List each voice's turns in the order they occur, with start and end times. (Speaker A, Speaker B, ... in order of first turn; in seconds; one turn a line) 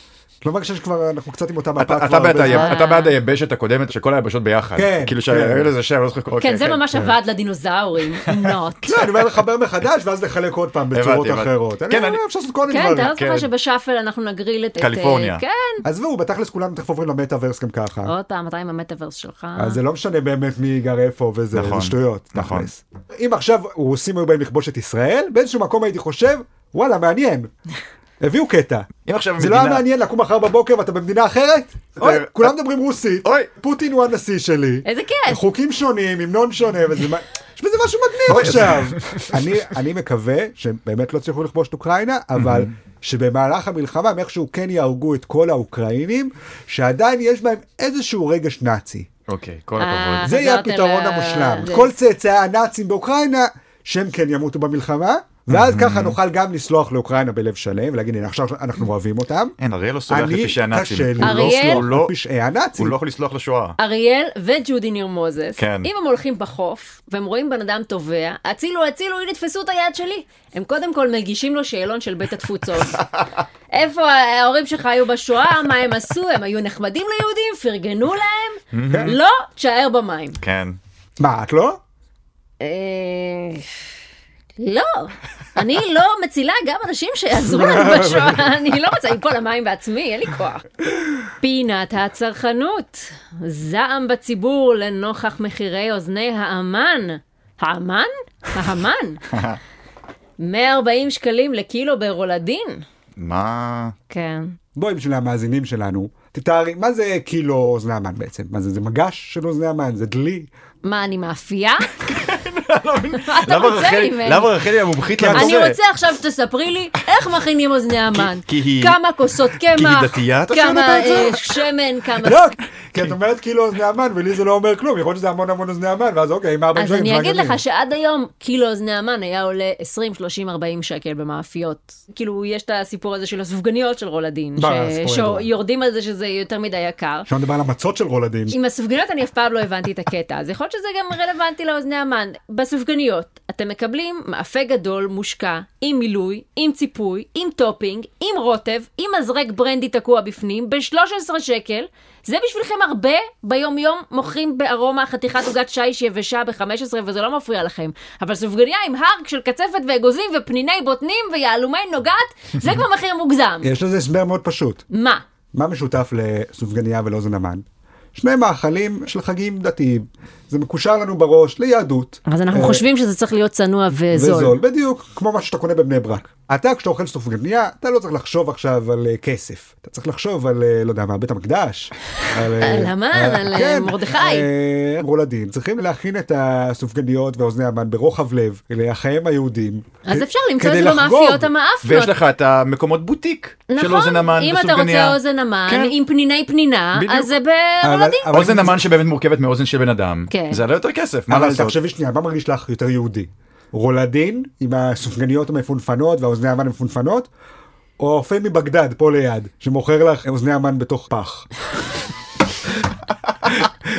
Speaker A: 0.4-2.8
Speaker B: 1.8-6.9
Speaker C: 2.4-3.1
Speaker A: 4.8-5.7
Speaker C: 6.4-9.0
Speaker A: 8.9-13.2
Speaker B: 10.9-12.2
Speaker C: 12.7-15.8
Speaker B: 13.1-13.5
Speaker B: 14.8-15.4
Speaker A: 15.8-18.1
Speaker C: 18.1-19.8
Speaker A: 19.6-27.5
Speaker B: 21.5-22.7
Speaker A: 28.2-49.1
Speaker B: 29.0-29.8
Speaker B: 32.0-32.5
Speaker B: 33.2-33.5
Speaker C: 34.8-35.4
Speaker B: 38.3-39.3
Speaker B: 42.4-42.7
Speaker B: 49.3-50.3
Speaker C: 49.8-51.9
Speaker A: 50.2-59.5
Speaker B: 55.5-56.2
Speaker B: 59.6-62.1
Speaker A: 60.1-63.0
Speaker C: 61.2-61.8
Speaker B: 62.8-63.8
Speaker C: 63.8-73.0
Speaker B: 65.6-65.9
Speaker B: 72.9-73.3
Speaker C: 73.7-80.4
Speaker B: 78.7-79.2
Speaker B: 80.4-80.8
Speaker A: 81.2-81.8
Speaker C: 82.6-83.7
Speaker C: 84.6-90.6
Speaker A: 87.4-88.5
Speaker C: 91.4-99.2
Speaker B: 99.3-99.6
Speaker C: 100.4-102.8
Speaker B: 103.2-103.9
Speaker C: 104.1-104.5
Speaker A: 104.7-110.5
Speaker C: 110.8-111.9
Speaker B: 111.9-115.8
Speaker C: 113.2-114.5
Speaker A: 115.2-115.6
Speaker C: 115.3-122.4
Speaker B: 118.1-119.0
Speaker B: 119.6-121.5
Speaker A: 122.2-127.6
Speaker C: 126.7-137.3
Speaker A: 134.6-135.5
Speaker A: 137.3-138.6
Speaker C: 138.5-163.7
Speaker A: 163.6-164.8
Speaker C: 164.9-165.2
Speaker A: 165.5-167.6
Speaker A: 168.1-172.8
Speaker C: 172.2-174.6
Speaker A: 174.1-191.5
Speaker C: 182.6-184.5
Speaker C: 190.1-192.2
Speaker B: 191.8-195.9
Speaker C: 193.7-198.5
Speaker B: 196.9-197.3
Speaker A: 197.8-198.9
Speaker B: 198.3-201.8
Speaker C: 200.3-200.6
Speaker A: 201.3-207.3
Speaker A: 208.0-211.5